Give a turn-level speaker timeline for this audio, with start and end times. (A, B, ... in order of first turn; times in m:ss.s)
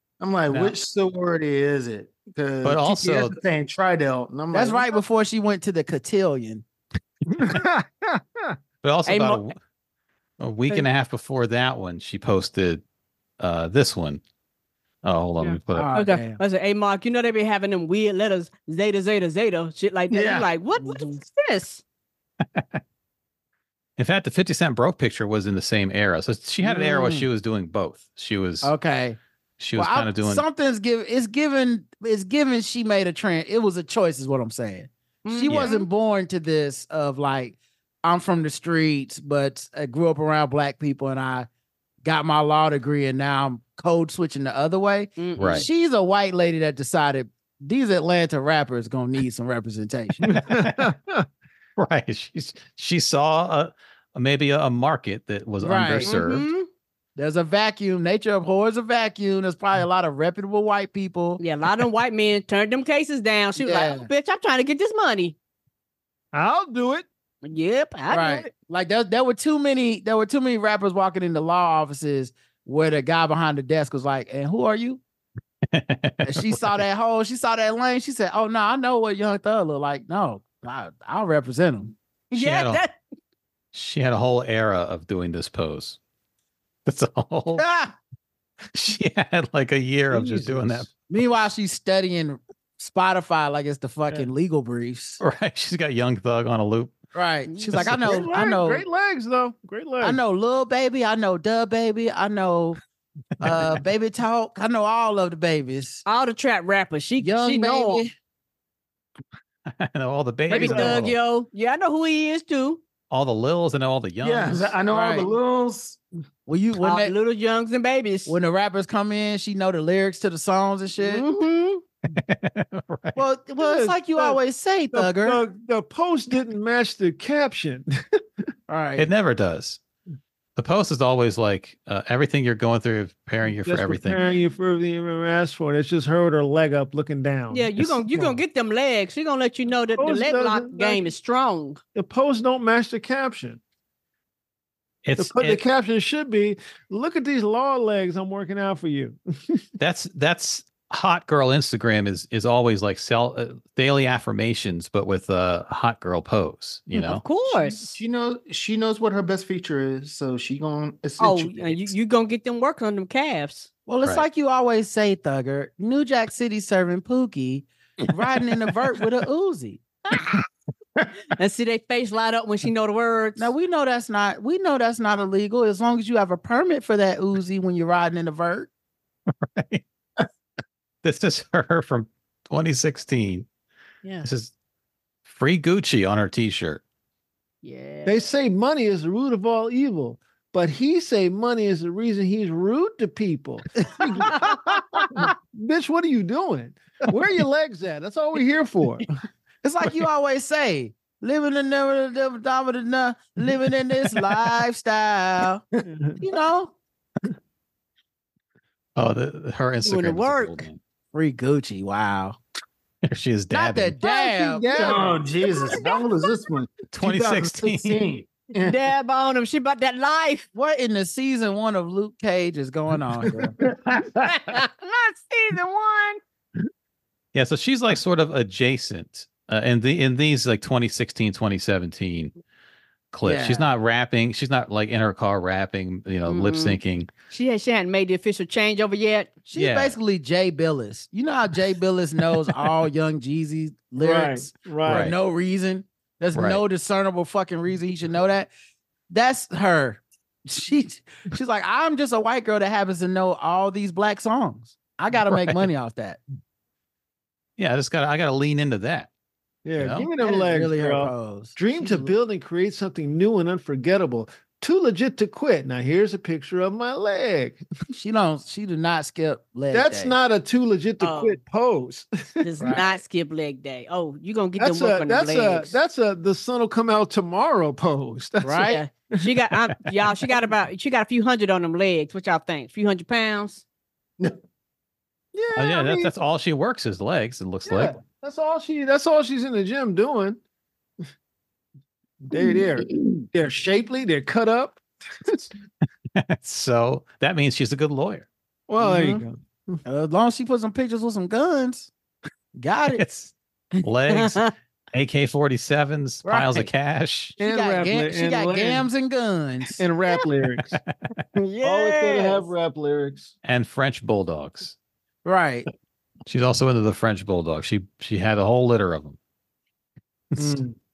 0:00.2-0:05.0 A
0:00.5-0:00.7 B
0:02.6-0:03.4 B
0:04.5-0:06.6 C
0:07.3-0:08.5 D
0:08.8-0:09.6 B
0:09.0-0:09.4 E
0:10.4-0:12.8 B
0:13.4-0:14.2 B
0:15.0-0:15.9 B
0:15.4-0:21.8 E
0:15.7-0:16.4 C
0:20.1-0:20.5 A
0:22.4-0:22.8 B
0:24.0-0:28.7 B
0:26.6-0:27.3 C
0:28.6-0:29.2 C
0:29.6-0:30.4 B
0:29.7-0:41.5 C
0:35.2-0:35.9 E
0:35.5-0:35.7 B
0:42.0-0:50.2 C
0:45.2-0:45.7 E
0:45.4-0:45.7 B
0:50.2-0:51.2 D
0:51.8-0:56.5 B
0:55.6-0:56.1 C
0:56.0-0:56.7 E
0:57.2-1:01.4 C
1:01.4-1:05.3 E
1:03.6-1:04.1 C
1:06.3-1:07.0 D
1:07.4-1:08.5 E
1:08.1-1:15.0 C
1:15.7-1:16.8 B
1:16.3-1:21.9 C
1:22.3-1:23.0 E
1:22.3-1:22.8 B
1:23.7-1:26.0 B
1:26.8-1:27.6 B
1:27.6-1:27.9 C
1:28.7-1:30.9 B
1:30.1-1:30.8 D
1:31.1-1:35.2 C
1:35.2-1:37.0 B
1:37.1-1:38.8 C
1:37.5-1:37.9 E
1:37.8-1:40.2 D
1:40.0-1:42.8 C
1:43.4-1:46.0 C
1:43.4-1:43.7 B
1:46.0-1:48.0 E
1:47.2-1:48.1 C
1:49.7-1:51.2 B
1:50.5-1:52.8 E
1:50.5-1:51.0 D
1:53.1-1:54.7 B
1:54.2-1:56.0 A
1:54.9-1:55.3 C
1:56.4-1:57.1 C
1:56.8-1:58.4 E
1:58.2-2:01.3 C
2:01.0-2:01.8 E
2:02.1-2:03.2 B
2:03.2-2:05.4 C
2:03.6-2:04.4 D
2:04.9-2:08.2 D
2:08.7-2:09.1 C
2:09.0-2:09.8 B
2:10.6-2:14.2 B
2:13.5-2:18.4 D
2:17.5-2:21.8 E
2:20.0-2:21.1 D
2:21.9-2:23.6 D
2:25.0-2:25.6 B
2:25.2-2:29.6 D
2:29.8-2:37.3 B
2:36.9-2:38.0 E
2:37.4-2:41.9 A
2:41.2-2:43.7 E
2:43.9-2:49.8 C
2:51.4-2:53.5 E
2:53.4-2:58.7 C
2:59.4-2:59.8 B
3:01.0-3:03.5 B
3:04.0-3:04.3 E
3:04.2-3:04.5 B
3:05.2-3:06.8 B
3:07.6-3:08.3 E
3:08.0-3:14.4 D
3:14.3-3:15.2 C
3:15.1-3:19.0 D
3:19.6-3:25.6 C
3:25.8-3:26.2 D
3:26.2-3:26.7 C
3:29.0-3:30.8 B
3:29.8-3:30.6 E
3:31.1-3:32.4 C
3:33.0-3:34.0 B
3:33.5-3:35.0 C
3:34.0-3:38.8 A
3:34.8-3:35.2 D
3:36.9-3:38.0 B
3:38.6-3:40.5 E
3:40.5-3:43.5 C
3:43.6-3:44.4 A
3:44.5-3:46.2 E
3:47.3-3:52.3 B
3:53.1-3:57.1 B
3:53.2-3:53.7 C
3:56.3-3:59.4 E
3:59.5-4:08.5 C
3:59.5-4:00.0 B
4:04.0-4:05.1 D
4:04.8-4:05.1 B
4:06.3-4:06.6 B
4:09.1-4:16.2 C
4:17.6-4:19.1 B
4:19.6-4:27.6 D
4:19.8-4:20.1 B
4:20.2-4:22.1 C
4:27.9-4:30.1 C
4:29.7-4:32.8 D
4:31.0-4:31.4 E
4:32.4-4:35.7 E
4:34.6-4:39.4 D
4:38.4-4:38.8 C
4:38.7-4:43.6 E
4:45.3-4:46.1 D
4:45.6-4:48.0 B
4:47.6-4:50.4 D
4:52.2-4:55.5 D
4:52.4-4:53.2 A
4:56.2-4:58.3 B
4:58.7-4:59.8 D
4:58.8-4:59.2 C
4:59.8-5:01.9 C
5:02.5-5:03.0 C
5:02.9-5:04.4 B
5:03.7-5:04.5 E
5:04.9-5:07.4 B
5:06.2-5:06.7 C
5:07.4-5:08.9 D
5:07.4-5:09.8 C
5:09.8-5:10.8 D
5:11.4-5:12.5 E
5:11.6-5:13.3 D
5:13.4-5:14.7 B
5:15.2-5:15.6 C
5:16.3-5:19.2 B
5:20.3-5:20.6 B
5:20.4-5:20.6 C